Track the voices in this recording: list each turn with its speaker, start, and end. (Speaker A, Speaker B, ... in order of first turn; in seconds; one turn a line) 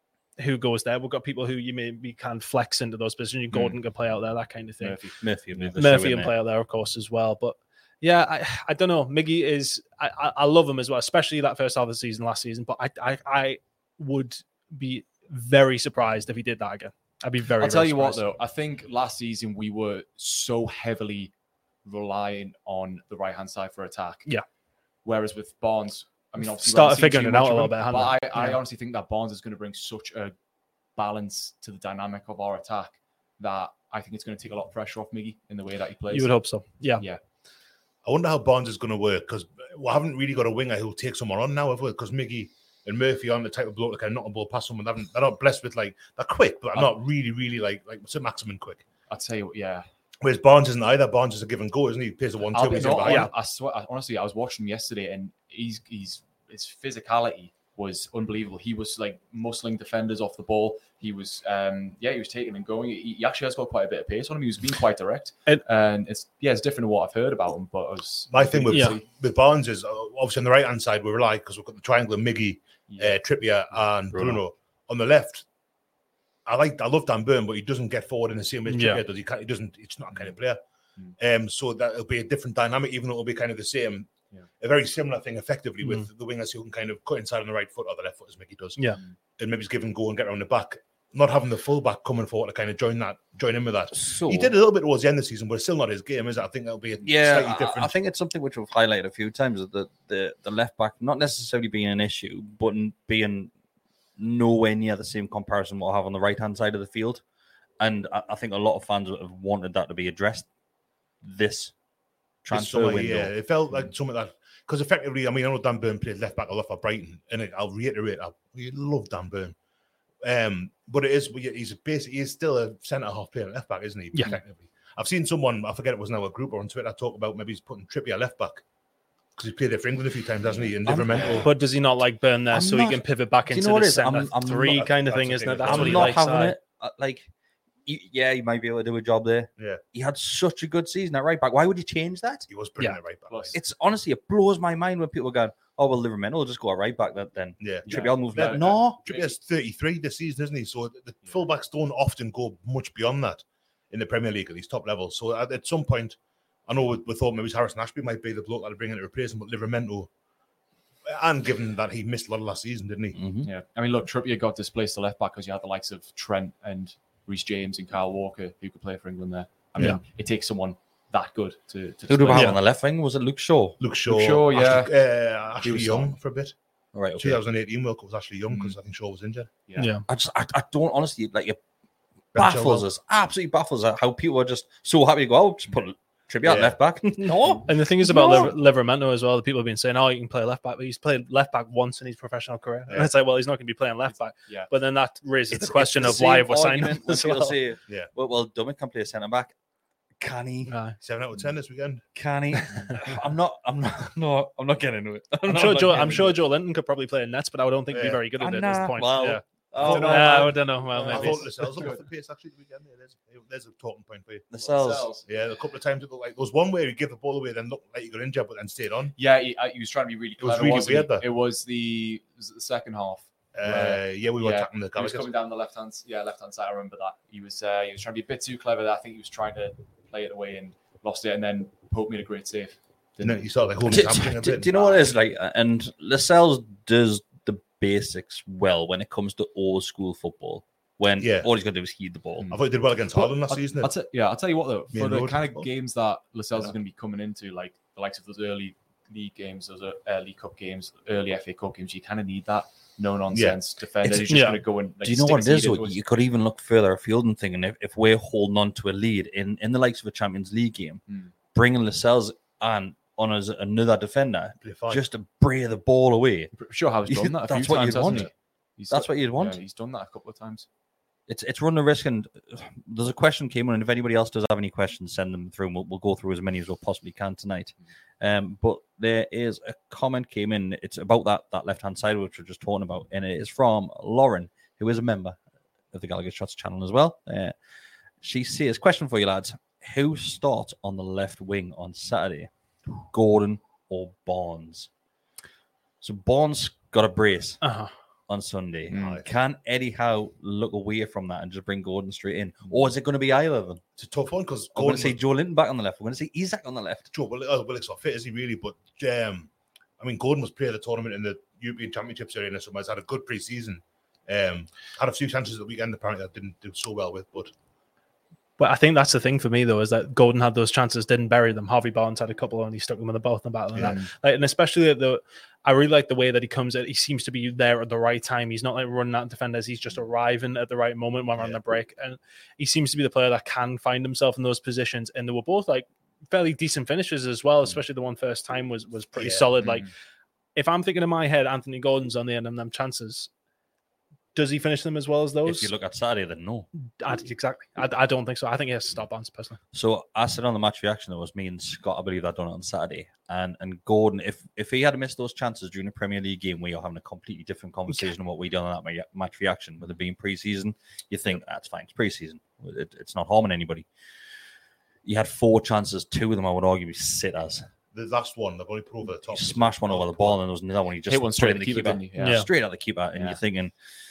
Speaker A: 0.4-5.0
Speaker B: 3.5-3.8
Speaker B: 4.8-5.7
Speaker C: 5.2-6.3
Speaker A: 5.8-18.2
Speaker B: 17.6-21.3
Speaker B: 21.8-24.3
Speaker B: 25.0-30.3
Speaker A: 26.4-28.6
Speaker B: 30.9-36.4
Speaker A: 36.1-37.0
Speaker D: 38.0-48.8
Speaker B: 49.1-49.8
Speaker D: 50.2-53.3
Speaker B: 52.5-69.0
Speaker A: 52.9-53.3
Speaker D: 68.3-75.5
Speaker A: 68.7-69.0
Speaker B: 72.9-73.8
Speaker C: 74.1-74.4
Speaker D: 76.5-80.6
Speaker A: 78.7-79.0
Speaker D: 81.2-97.9
Speaker A: 85.8-86.1
Speaker C: 93.9-94.5
Speaker C: 97.0-103.5
Speaker C: 104.2-107.2
Speaker C: 107.8-110.5
Speaker C: 111.2-111.8
Speaker C: 112.4-113.3
Speaker D: 112.5-119.5
Speaker D: 120.2-128.6
Speaker D: 129.4-131.5
Speaker B: 130.4-131.4
Speaker C: 130.8-131.5
Speaker A: 131.4-136.6
Speaker C: 132.5-135.0
Speaker D: 134.8-136.2
Speaker C: 135.6-137.3
Speaker C: 137.8-142.5
Speaker D: 142.5-143.6
Speaker B: 143.3-143.5
Speaker C: 143.5-149.0
Speaker D: 147.6-160.1
Speaker B: 147.8-149.4
Speaker D: 161.1-163.2
Speaker C: 163.1-163.5
Speaker B: 163.4-172.6
Speaker C: 172.1-173.8
Speaker D: 173.8-176.6
Speaker B: 174.1-174.9
Speaker B: 175.6-176.1
Speaker C: 176.9-177.4
Speaker D: 177.1-179.5
Speaker B: 179.7-179.9
Speaker A: 179.8-180.0
Speaker C: 180.1-181.6
Speaker C: 182.3-188.6
Speaker D: 182.3-182.9
Speaker D: 186.4-186.8
Speaker A: 187.6-197.6
Speaker B: 194.4-194.7
Speaker C: 195.5-199.5
Speaker C: 200.2-200.8
Speaker A: 200.7-201.0
Speaker D: 201.0-202.0
Speaker C: 202.1-206.3
Speaker A: 205.4-211.8
Speaker D: 207.9-208.2
Speaker C: 208.4-210.6
Speaker B: 209.8-212.0
Speaker D: 209.8-214.4
Speaker C: 214.5-215.1
Speaker B: 214.5-215.3
Speaker D: 215.2-219.1
Speaker B: 219.2-233.5
Speaker D: 220.4-221.2
Speaker D: 223.5-225.3
Speaker D: 233.2-235.1
Speaker C: 233.8-242.5
Speaker D: 241.2-241.5
Speaker B: 242.4-256.0
Speaker D: 242.5-243.9
Speaker D: 244.9-245.7
Speaker D: 253.3-253.6
Speaker C: 254.0-266.5
Speaker A: 254.3-254.6
Speaker D: 264.6-265.1
Speaker B: 266.5-270.7
Speaker C: 267.1-268.3
Speaker C: 268.9-269.6
Speaker C: 271.3-285.4
Speaker C: 285.9-287.6
Speaker C: 288.2-294.9
Speaker C: 296.0-297.7
Speaker A: 297.6-297.9
Speaker C: 298.3-303.8
Speaker B: 298.9-299.2
Speaker D: 298.9-299.2
Speaker D: 304.0-305.2
Speaker C: 304.7-307.1
Speaker D: 307.1-317.5
Speaker A: 318.6-339.9
Speaker B: 323.8-324.1
Speaker D: 339.2-339.5
Speaker B: 339.6-339.9
Speaker A: 340.5-343.3
Speaker A: 344.3-345.7
Speaker C: 345.4-346.7
Speaker A: 347.0-349.6
Speaker C: 349.7-363.9
Speaker C: 365.0-367.7
Speaker D: 367.9-370.4
Speaker C: 369.3-373.7
Speaker B: 371.1-372.5
Speaker A: 372.2-372.5
Speaker B: 373.1-373.4